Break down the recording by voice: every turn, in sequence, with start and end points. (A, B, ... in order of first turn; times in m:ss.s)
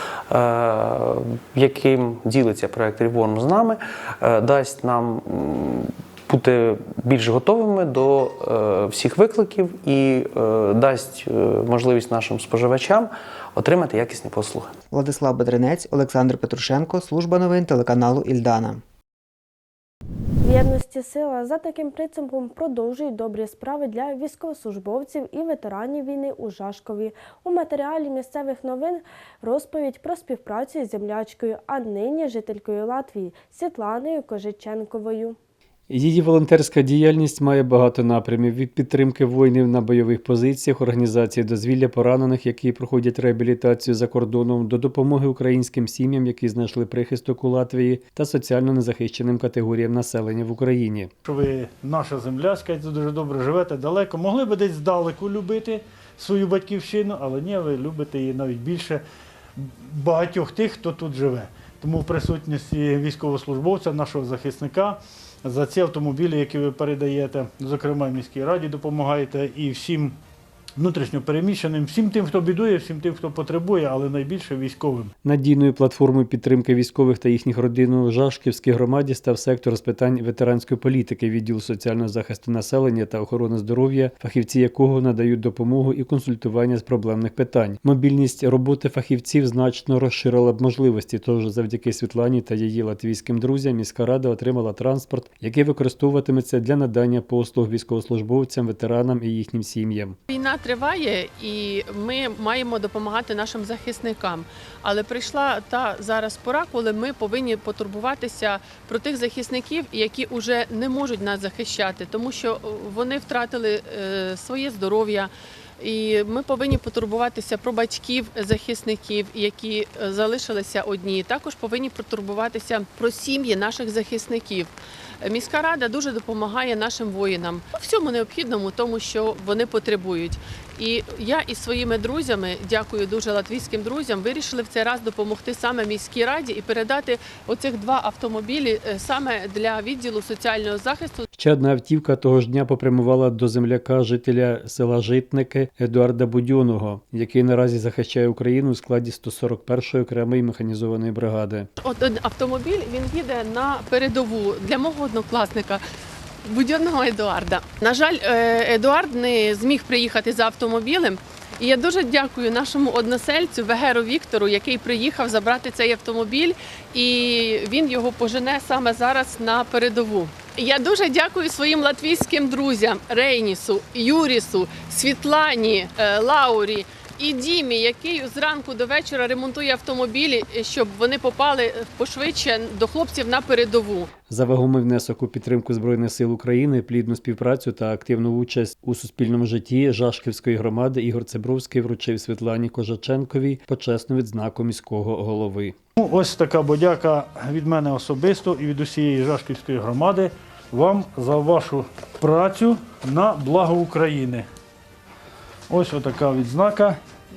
0:00.3-0:14.7 A
0:14.9-0:18.8 B
0:20.4-0:35.4 C
0:35.9-0:51.1 D
0:51.2-0:59.0 E
0:59.6-1:10.2 E
1:10.8-1:15.1 E
1:15.2-1:40.2 D
1:40.3-2:21.2 F
2:21.4-2:31.7 D
2:31.8-2:35.8 F
2:36.4-3:04.1 F
3:04.3-3:15.7 D
3:16.0-3:24.4 E
3:25.7-3:27.0 E